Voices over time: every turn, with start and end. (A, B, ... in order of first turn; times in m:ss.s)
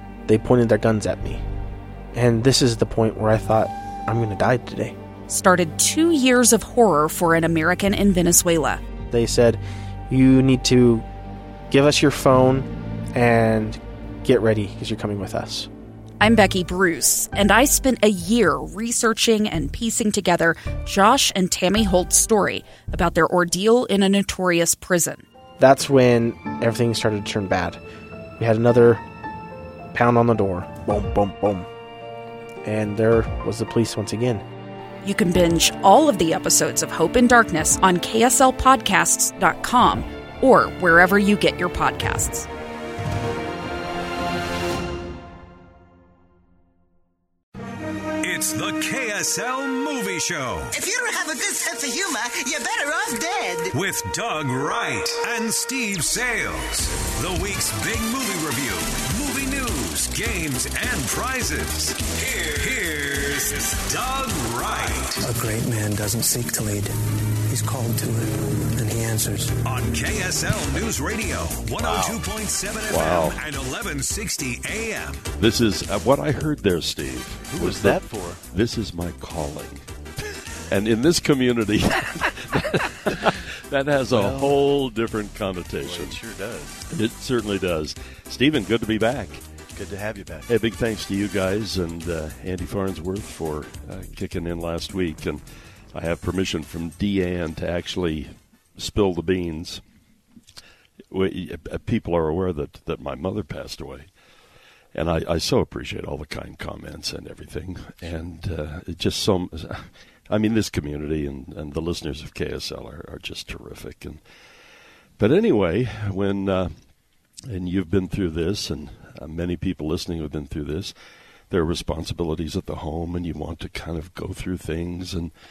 0:00.3-0:01.4 A
0:02.1-0:05.0 A
0:05.3-0:08.8 B
0:09.1-0:11.1 A
0:11.7-0:15.7 A
0:16.2-0:25.2 B
0:25.6-0:27.8 A
0:28.4-0:29.0 A
0:29.9-0:31.7 A
0:32.6-0:34.4 A
0:35.0-0:42.5 B
0:48.2-0:50.7 C
0:50.7-0:53.8 D
0:53.7-1:05.2 C
1:05.2-1:06.9 E
1:07.5-1:09.6 E
1:09.6-1:15.3 C
1:11.8-1:12.2 F
1:12.9-1:13.4 G
1:15.4-1:19.8 G
1:17.5-1:18.4 F
1:20.7-1:26.2 G
1:24.1-1:24.7 F
1:25.8-1:26.8 F
1:26.9-1:29.4 G
1:29.8-1:30.5 F
1:30.5-1:35.4 G
1:35.9-1:39.8 G
1:41.1-1:44.1 G
1:44.9-1:54.2 G
1:55.2-1:56.7 G
1:57.5-2:00.9 G
2:01.5-2:05.3 G